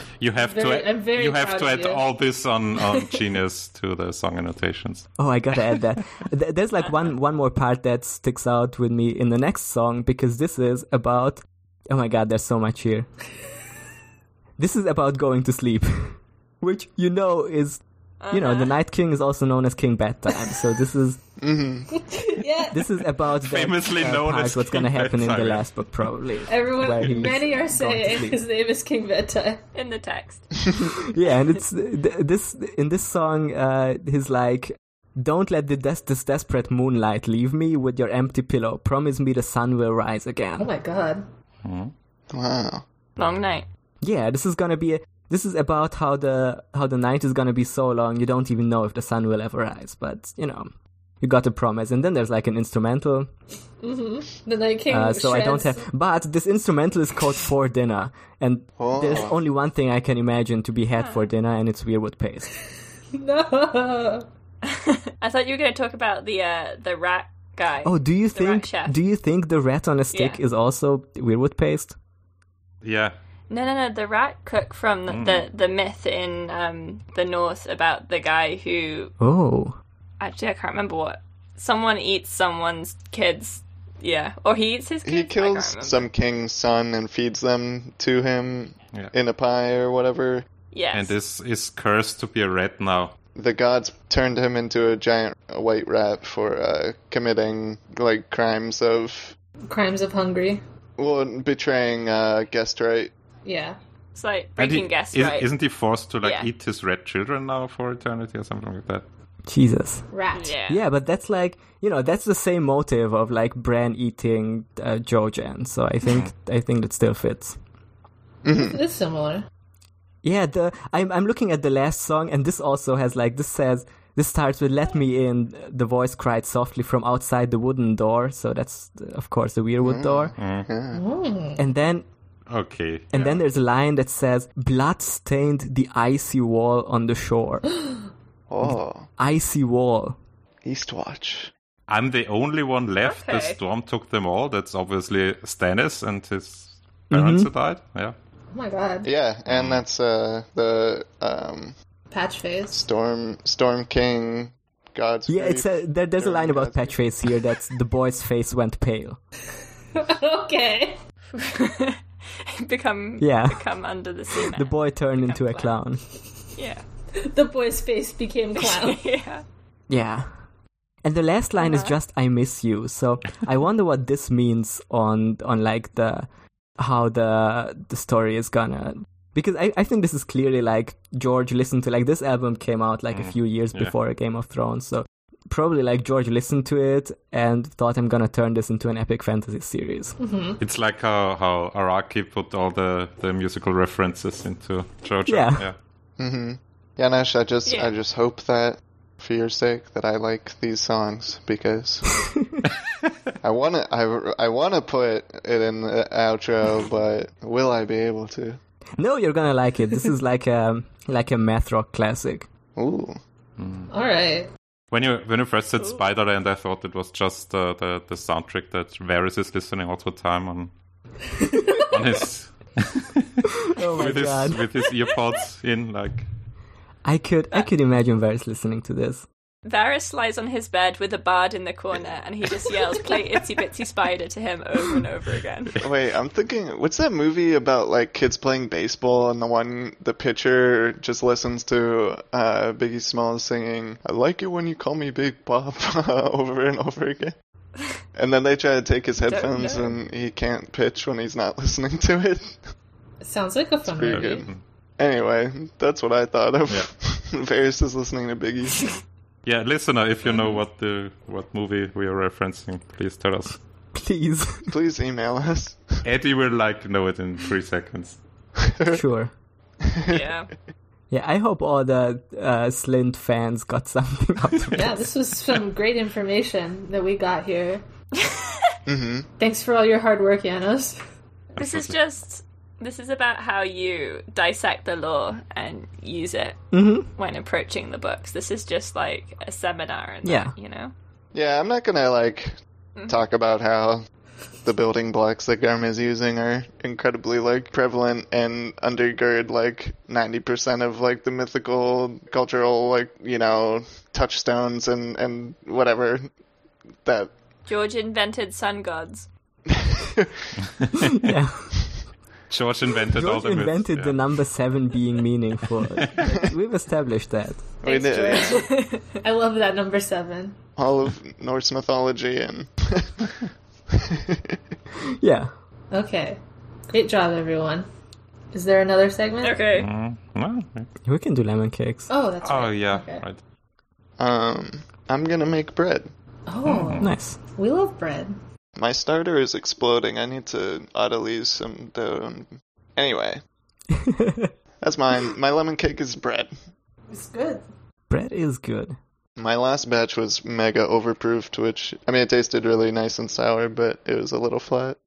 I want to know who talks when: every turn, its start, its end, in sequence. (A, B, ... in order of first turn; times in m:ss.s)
0:00.2-0:05.1 A
0:00.4-0:02.0 B
0:05.2-0:13.1 C
0:14.6-0:21.2 C
0:18.2-0:18.7 D
0:21.4-0:22.0 E
0:21.9-0:22.8 B
0:22.7-0:28.4 C
0:23.4-0:26.0 A
0:26.5-0:29.6 B
0:29.7-0:30.5 D
0:30.8-0:40.7 C
0:40.6-0:41.2 B
0:41.6-0:41.9 A
0:42.3-0:42.8 E
0:43.2-0:43.7 D
0:44.0-0:53.3 C
0:53.8-0:55.8 B
0:54.9-1:02.5 C
0:58.8-0:59.4 E
1:01.0-1:01.2 D
1:03.1-1:04.2 B
1:04.6-1:09.0 D
1:07.8-1:11.9 C
1:10.1-1:10.4 D
1:12.8-1:13.1 A
1:13.5-1:19.1 D
1:15.1-1:15.4 A
1:19.2-1:19.8 C
1:20.2-1:26.1 D
1:25.0-1:30.4 E
1:30.7-1:31.1 D
1:30.9-1:33.1 A
1:33.3-1:39.4 E
1:39.7-1:40.6 B
1:41.0-1:43.1 E
1:43.4-1:43.8 B
1:44.1-1:45.5 D
1:44.6-1:49.0 A
1:46.2-1:46.5 D
1:49.4-1:50.0 C
1:50.1-1:50.6 B
1:50.3-1:50.8 D
1:50.7-1:57.6 C
1:58.4-1:58.8 E
1:58.5-1:59.5 B
2:00.2-2:10.3 C
2:09.8-2:11.0 E
2:10.4-2:10.7 A
2:10.9-2:11.6 B
2:11.6-2:12.0 C
2:12.5-2:13.1 A
2:13.1-2:17.6 C
2:18.5-2:19.1 E
2:18.6-2:20.2 C
2:20.6-2:21.5 E
2:21.9-2:28.2 A
2:23.0-2:23.6 D
2:27.1-2:27.5 C
2:28.5-2:29.1 B
2:29.0-2:31.7 E
2:29.5-2:29.8 A
2:32.1-2:32.8 B
2:32.7-2:37.0 E
2:35.3-2:39.2 C
2:39.9-2:41.0 B
2:41.3-2:45.8 D
2:43.2-2:43.6 C
2:44.5-2:46.0 C
2:46.5-2:46.8 D
2:47.1-2:49.0 B
2:48.6-2:49.4 D
2:49.9-2:50.3 C
2:51.0-3:10.2 C
2:51.6-2:52.0 D
3:03.1-3:03.9 A
3:10.2-3:10.6 B
3:10.6-3:15.8 A
3:15.3-3:15.6 C
3:16.2-3:22.2 E
3:17.6-3:17.9 D
3:23.4-3:28.6 E
3:29.0-3:32.5 C
3:32.8-3:33.2 E
3:33.6-3:33.9 A
3:33.9-3:34.5 B
3:34.9-3:40.7 A
3:35.8-3:36.0 D
3:41.6-3:41.9 B
3:41.9-3:43.2 A
3:43.7-3:44.6 C
3:43.9-3:46.3 A
3:47.0-3:49.2 C
3:49.6-3:55.8 D
3:55.8-4:07.3 E
4:08.1-4:12.6 E
4:09.2-4:10.0 D
4:13.2-4:14.5 B
4:13.9-4:14.5 E
4:14.0-4:14.6 A
4:15.0-4:18.9 E
4:19.4-4:23.6 A
4:20.2-4:20.6 D
4:23.9-4:24.7 C
4:24.7-4:26.0 E
4:26.0-4:28.2 A
4:28.7-4:29.0 E
4:28.9-4:29.3 C
4:29.9-4:30.2 E
4:30.1-4:30.5 D
4:31.1-4:34.9 C
4:34.7-4:37.8 B
4:38.2-4:38.6 D
4:38.8-4:39.3 E
4:39.4-4:41.0 B
4:41.5-4:46.6 D
4:41.6-4:41.9 A
4:46.7-4:47.1 C
4:47.1-4:50.9 D
4:50.2-4:50.5 C
4:51.3-4:52.5 E
4:53.1-4:54.0 E
4:54.6-5:06.3 E
5:07.0-5:07.3 E
5:07.6-5:09.3 D
5:09.8-5:10.2 E
5:11.2-5:12.1 C
5:12.5-5:14.2 A
5:13.2-5:17.7 C
5:17.8-5:18.6 E
5:17.9-5:19.0 D
5:17.9-5:20.6 B
5:20.8-5:23.3 E
5:24.0-5:24.6 E
5:25.2-5:25.5 C
5:25.9-5:27.8 B
5:28.5-5:29.6 B
5:29.4-5:29.9 D
5:29.7-5:30.9 A
5:31.0-5:32.1 C
5:32.1-5:33.2 B
5:32.4-5:33.4 A
5:34.2-5:36.1 E
5:36.4-5:38.4 B
5:36.6-5:37.1 A
5:37.0-5:37.4 C
5:38.8-5:43.4 E
5:43.9-5:44.5 C
5:44.8-5:46.5 E
5:47.1-5:47.6 B
5:48.1-5:49.0 C
5:49.4-5:55.0 E